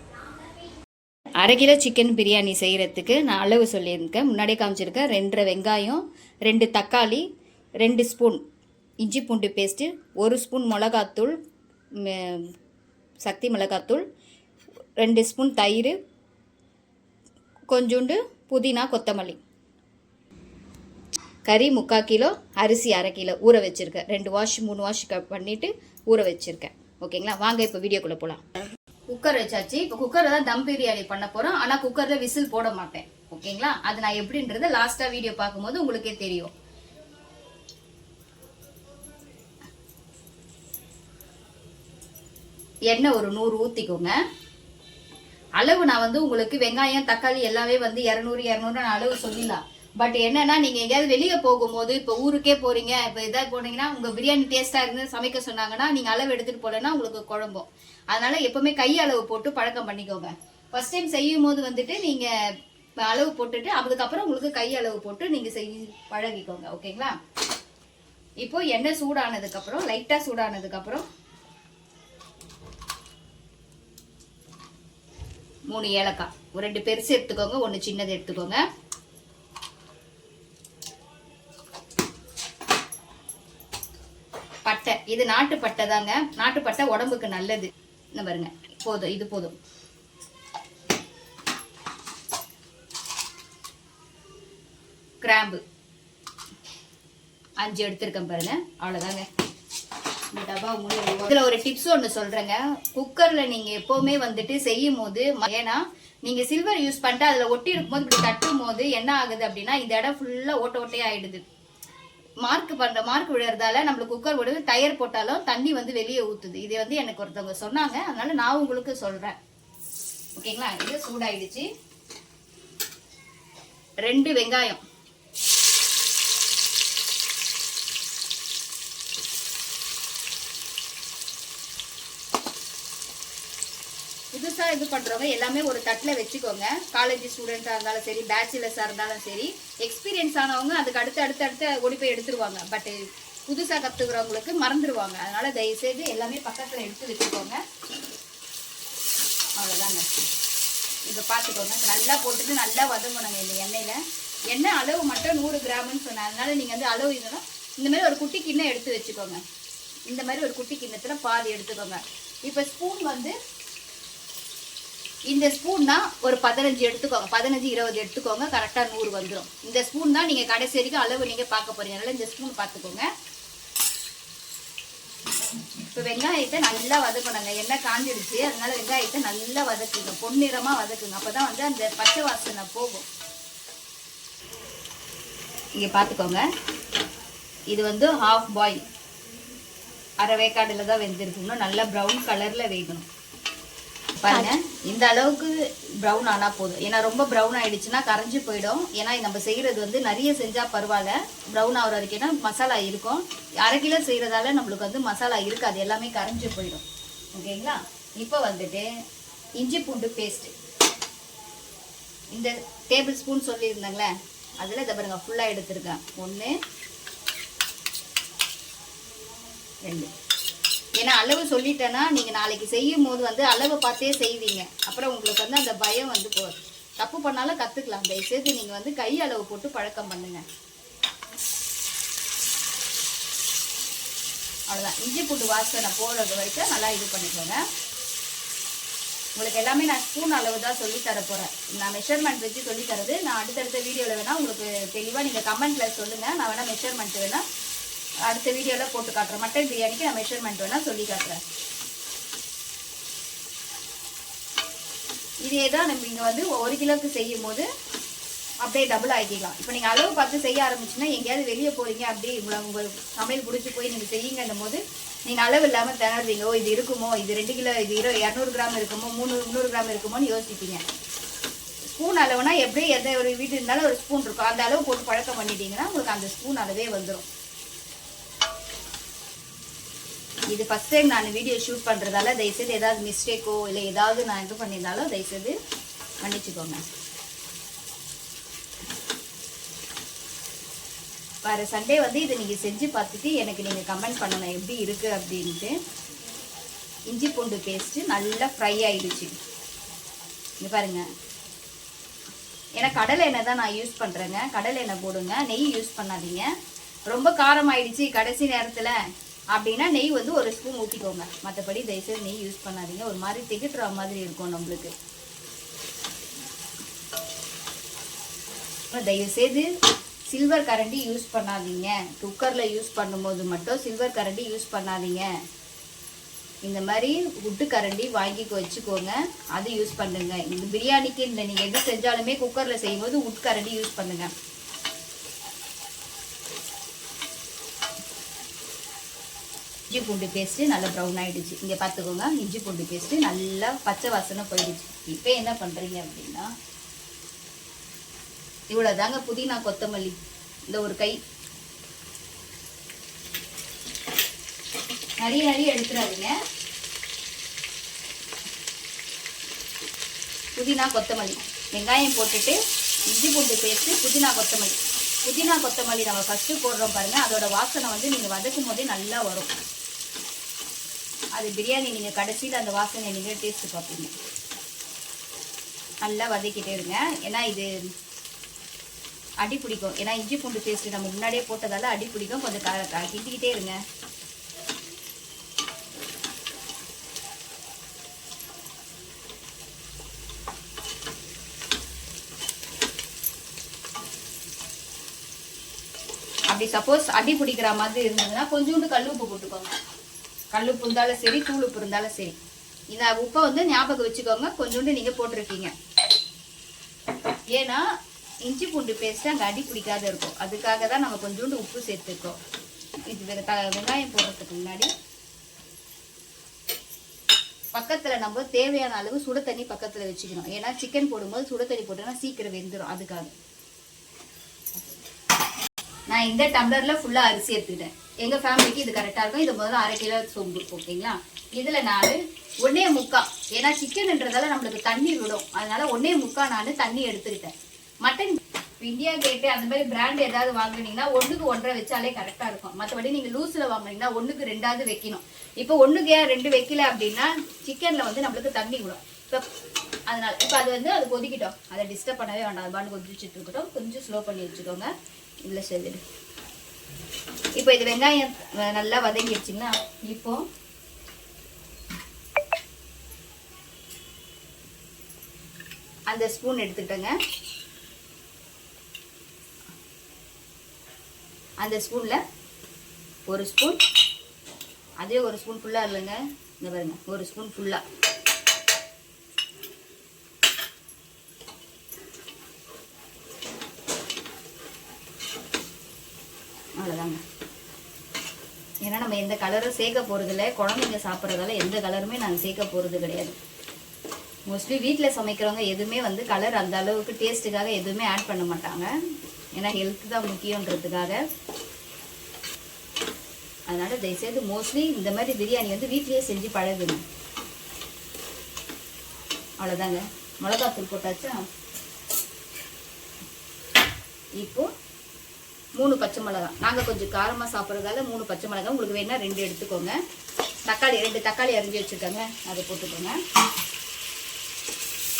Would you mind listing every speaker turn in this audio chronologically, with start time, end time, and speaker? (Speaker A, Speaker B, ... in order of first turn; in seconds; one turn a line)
Speaker A: 1.4-7.2
Speaker A: 7.8-8.4
Speaker A: 9.0-11.3
Speaker A: 12.0-12.5
Speaker A: 13.2-14.0
Speaker A: 15.0-15.9
Speaker A: 17.7-19.4
Speaker A: 21.4-28.4
Speaker A: 29.1-36.5
Speaker A: 42.9-44.1
Speaker A: 45.6-62.3
Speaker A: 63.0-67.2
Speaker A: 68.4-71.0
Speaker A: 75.7-78.6
Speaker A: 84.7-89.5
Speaker A: 95.2-95.6
Speaker A: 97.6-99.2
Speaker A: 100.3-111.4
Speaker A: 112.4-119.4
Speaker A: 120.3-121.7
Speaker A: 124.0-124.8
Speaker A: 134.3-142.9
Speaker A: 143.5-147.6
Speaker A: 149.6-150.1
Speaker A: 151.1-159.4
Speaker A: 160.1-163.3
Speaker A: 165.3-173.1
Speaker A: 175.8-183.1
Speaker A: 185.8-186.4
Speaker A: 187.7-188.8
Speaker A: 190.2-193.1
Speaker A: 194.2-208.9
Speaker A: 209.6-210.5
Speaker A: 212.3-216.6
Speaker A: 219.8-220.1
Speaker A: 221.0-230.4
Speaker A: 234.7-237.6
Speaker A: 239.4-247.4
Speaker A: 248.2-251.4
Speaker A: 255.4-257.7
Speaker A: 258.6-270.8
Speaker A: 271.9-277.2
Speaker A: 280.5-285.5
Speaker A: 286.2-286.8
Speaker A: 291.4-295.8
Speaker A: 297.1-299.3
Speaker A: 300.6-301.1
Speaker A: 302.8-306.5
Speaker A: 307.1-309.0
Speaker A: 309.5-314.9
Speaker A: 318.9-319.7
Speaker A: 320.3-325.3
Speaker A: 326.6-334.3
Speaker A: 339.9-346.5
Speaker A: 348.7-350.2
Speaker A: 350.7-351.2
Speaker A: 355.2-356.3
Speaker A: 360.6-362.6
Speaker A: 363.1-369.5
Speaker A: 371.3-374.1
Speaker A: 376.0-377.7
Speaker A: 379.4-383.8
Speaker A: 396.5-399.7
Speaker A: 400.5-402.4
Speaker A: 402.9-405.7
Speaker A: 407.5-407.8
Speaker A: 408.4-412.4
Speaker A: 413.1-414.9
Speaker A: 417.7-423.3
Speaker A: 426.1-449.4
Speaker A: 450.1-454.9
Speaker A: 455.4-456.0
Speaker A: 457.6-460.4
Speaker A: 466.1-467.1
Speaker A: 471.6-472.2
Speaker A: 473.3-473.8
Speaker A: 475.0-477.8
Speaker A: 486.8-487.2
Speaker A: 488.8-493.4
Speaker A: 494.5-498.9
Speaker A: 499.6-501.2
Speaker A: 503.7-507.0
Speaker A: 509.6-511.4
Speaker A: 514.4-514.7
Speaker A: 515.8-519.9
Speaker A: 520.6-523.2